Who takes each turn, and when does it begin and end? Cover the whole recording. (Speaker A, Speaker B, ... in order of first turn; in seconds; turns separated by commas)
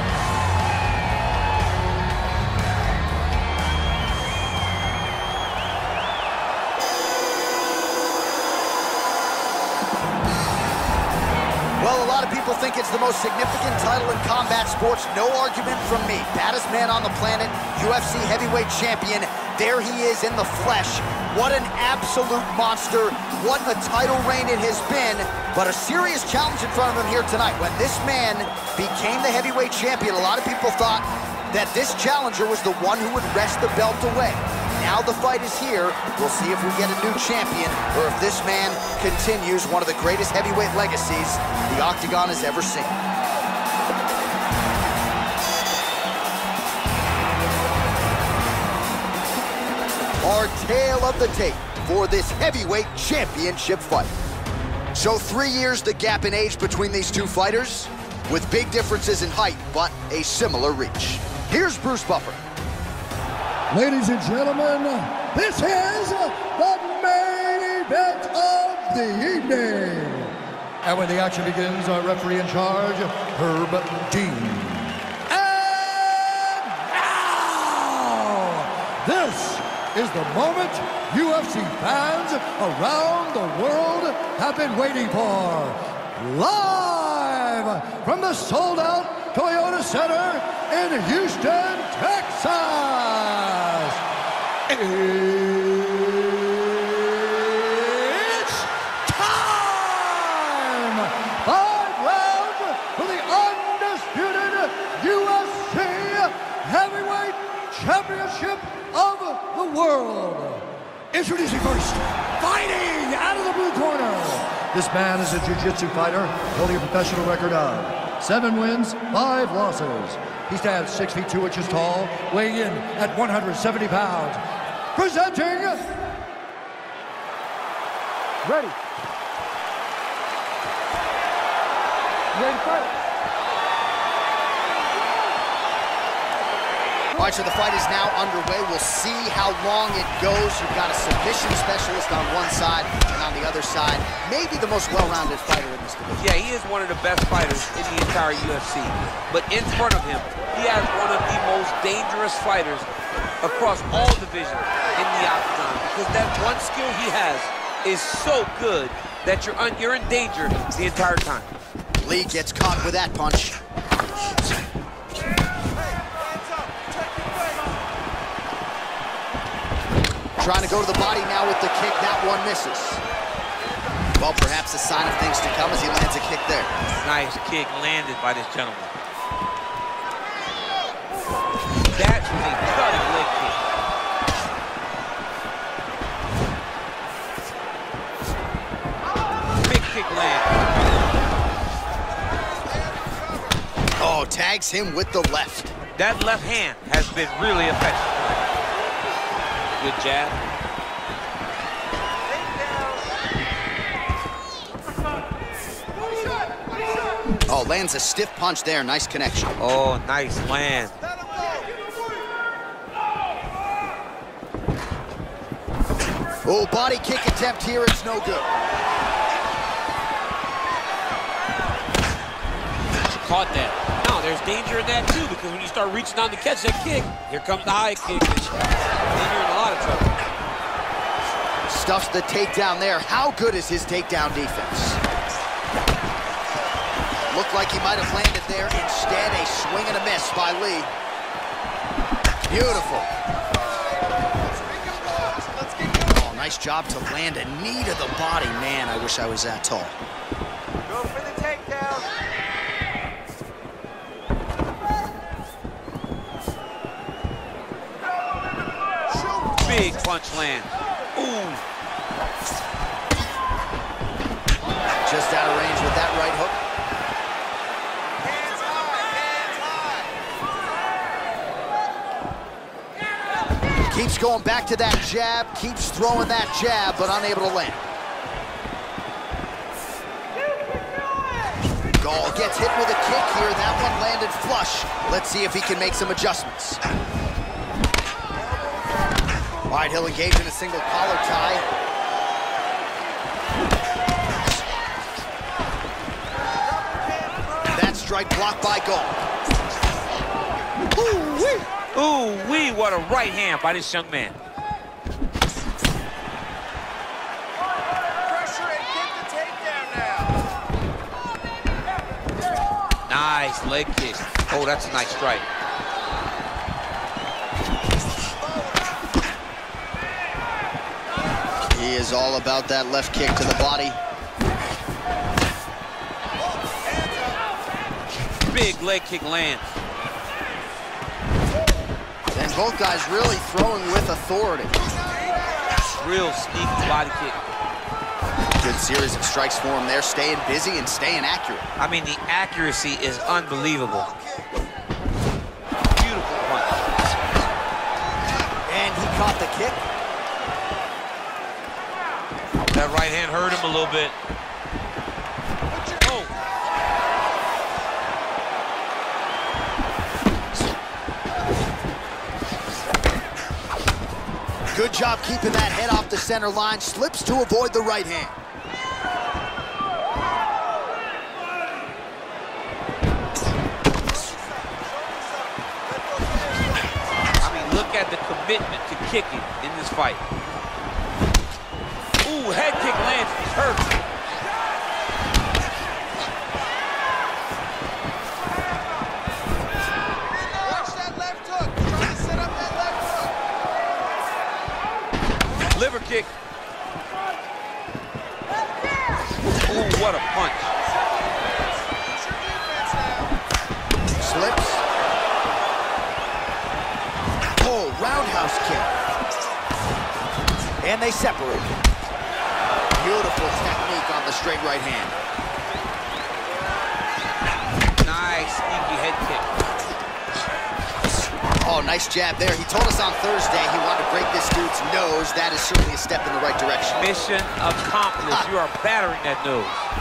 Speaker A: 11.8-43.0, Speaker A: 50.2-54.1, Speaker A: 54.9-62.4, Speaker B: 63.7-94.0, Speaker B: 94.7-124.4, Speaker B: 125.0-125.9, Speaker B: 128.5-128.7, Speaker B: 132.5-132.8, Speaker A: 137.1-146.3, Speaker C: 146.2-152.9, Speaker C: 153.4-161.5, Speaker A: 162.0-163.6, Speaker D: 165.7-167.8, Speaker A: 170.4-173.0, Speaker A: 174.2-176.7, Speaker C: 177.0-178.9, Speaker C: 181.9-183.6, Speaker C: 189.6-190.6, Speaker D: 192.3-193.6, Speaker A: 194.0-195.7, Speaker C: 196.0-198.4, Speaker C: 199.8-200.4, Speaker D: 202.2-203.1, Speaker A: 207.5-209.6, Speaker C: 209.6-210.9, Speaker D: 211.1-211.8, Speaker A: 216.4-218.5, Speaker C: 223.2-230.1, Speaker A: 231.7-235.0, Speaker A: 237.3-240.9, Speaker A: 242.5-243.1, Speaker D: 243.3-246.4, Speaker A: 246.1-249.9, Speaker D: 250.8-252.1, Speaker D: 259.1-260.1, Speaker C: 259.6-261.6, Speaker A: 265.0-266.6, Speaker D: 268.2-270.3, Speaker A: 273.9-277.8, Speaker A: 282.0-286.8, Speaker D: 288.4-289.2, Speaker A: 289.7-291.6, Speaker D: 296.6-297.9, Speaker A: 297.7-299.2, Speaker C: 301.4-304.4, Speaker D: 308.2-310.4, Speaker C: 313.1-315.5, Speaker A: 321.7-324.0, Speaker D: 326.4-327.5, Speaker C: 328.5-329.8, Speaker A: 332.3-334.7, Speaker D: 334.9-335.9, Speaker C: 336.0-337.4, Speaker A: 338.6-341.7, Speaker C: 341.8-344.1, Speaker D: 343.3-344.5, Speaker C: 345.9-346.8, Speaker A: 348.7-349.8, Speaker C: 352.7-354.2, Speaker D: 355.7-356.3, Speaker C: 356.0-356.3, Speaker A: 364.7-368.4, Speaker D: 374.1-377.3, Speaker C: 377.4-380.2, Speaker C: 382.2-383.9, Speaker D: 390.3-393.3, Speaker C: 395.7-396.3, Speaker C: 399.6-400.7, Speaker D: 401.1-403.4, Speaker A: 404.2-404.8, Speaker A: 407.6-408.9, Speaker A: 410.8-411.8, Speaker A: 412.9-415.1, Speaker C: 418.0-419.5, Speaker A: 421.6-427.1, Speaker C: 427.0-429.9